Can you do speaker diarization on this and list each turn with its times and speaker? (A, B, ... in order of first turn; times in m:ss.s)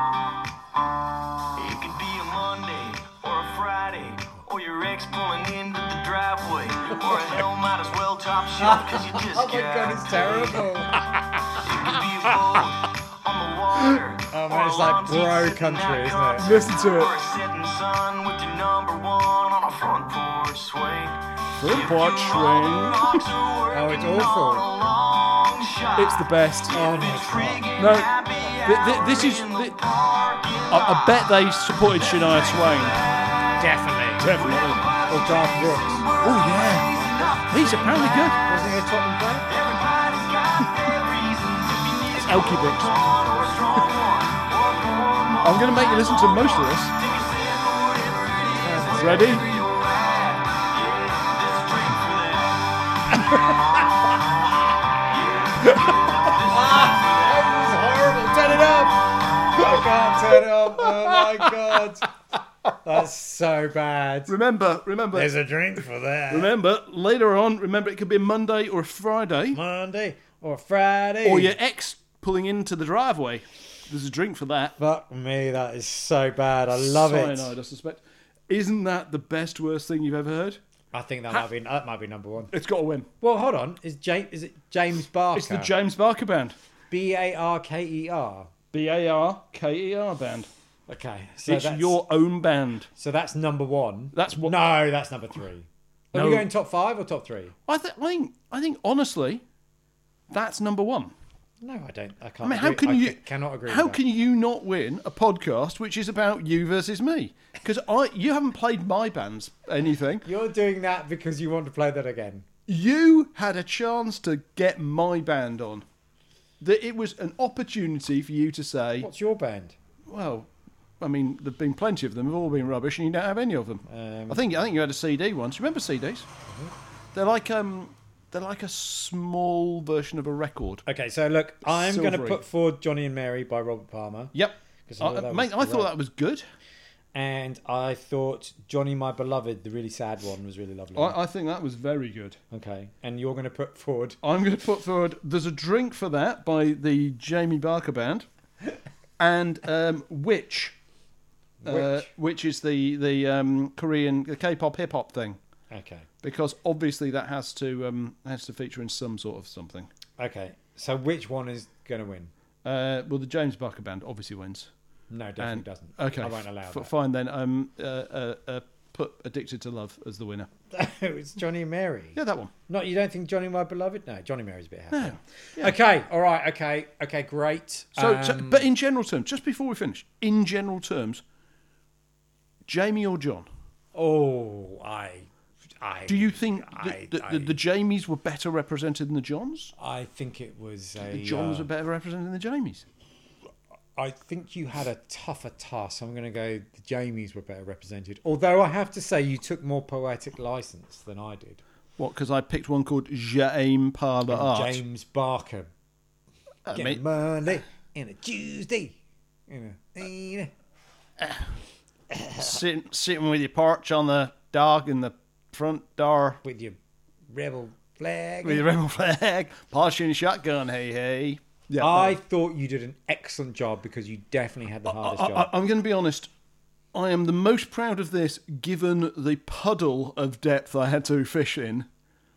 0:01.6-0:10.7 A
0:08.6-0:11.2 B
0:11.6-0:38.8 A
0:14.3-0:16.6 B
0:16.4-0:17.1 C
0:21.6-0:23.3 C
0:23.7-0:24.7 B
0:26.0-0:26.8 C
0:26.7-0:27.7 B
0:27.8-0:29.8 C
0:30.7-0:33.0 C
0:33.6-0:34.3 B
0:34.2-0:34.9 C
0:35.1-0:36.1 B
0:36.2-0:38.4 C
0:37.8-0:39.5 B
0:39.5-0:54.2 A
0:42.2-0:43.2 C
0:45.4-0:46.9 C
0:48.6-0:49.4 B
0:48.8-0:49.5 C
0:55.0-0:57.7 A
0:55.7-0:55.9 C
0:56.3-1:02.2 B
1:00.8-1:01.7 C
1:02.8-1:04.3 B
1:04.3-1:05.3 C
1:05.1-1:06.5 B
1:06.3-1:09.6 C
1:09.5-1:11.6 B
1:11.2-1:14.8 C
1:14.8-1:17.5 B
1:16.7-1:20.6 C
1:20.9-1:22.5 B
1:22.5-1:23.1 C
1:23.2-1:25.7 B
1:25.4-1:26.6 C
1:26.9-1:28.5 B
1:28.7-1:30.5 C
1:30.9-1:32.0 B
1:31.5-1:32.9 C
1:33.0-1:37.6 B
1:34.1-1:34.6 C
1:36.1-1:36.5 C
1:37.7-1:39.4 C
1:40.3-1:41.1 C
1:41.6-1:44.0 B
1:42.4-1:50.3 C
1:50.2-1:52.5 B
1:52.7-1:55.8 C
1:56.6-1:59.1 C
1:59.0-1:59.8 B
2:00.1-2:06.3 C
2:03.9-2:04.4 B
2:06.5-2:06.7 B
2:07.1-2:10.8 C
2:10.9-2:14.3 B
2:11.6-2:12.4 C
2:14.3-2:16.5 C
2:14.9-2:15.9 B
2:17.1-2:21.2 B
2:21.0-2:22.4 C
2:22.5-2:24.2 B
2:24.2-2:28.3 C
2:29.2-2:30.8 C
2:31.6-2:32.1 B
2:31.7-2:35.4 C
2:35.7-2:36.1 B
2:36.2-2:39.9 C
2:40.2-2:42.3 B
2:42.6-2:44.7 C
2:45.1-2:46.9 B
2:45.4-2:50.5 C
2:50.7-2:58.7 B
2:52.2-2:52.5 C
2:54.9-2:55.8 C
2:58.0-3:01.2 C
3:02.6-3:03.5 C
3:03.9-3:07.6 B
3:06.1-3:09.7 C
3:09.8-3:11.7 B
3:11.1-3:12.8 C
3:14.0-3:21.6 B
3:22.0-3:24.8 C
3:24.3-3:25.7 B
3:26.7-3:27.0 C
3:26.7-3:29.0 B
3:29.5-3:30.5 B
3:31.2-3:31.5 C
3:32.1-3:32.6 B
3:32.4-3:36.4 C
3:36.4-3:36.8 B
3:37.3-3:38.6 B
3:38.4-3:42.2 C
3:41.8-3:45.5 B
3:44.9-3:46.3 C
3:46.9-3:51.9 C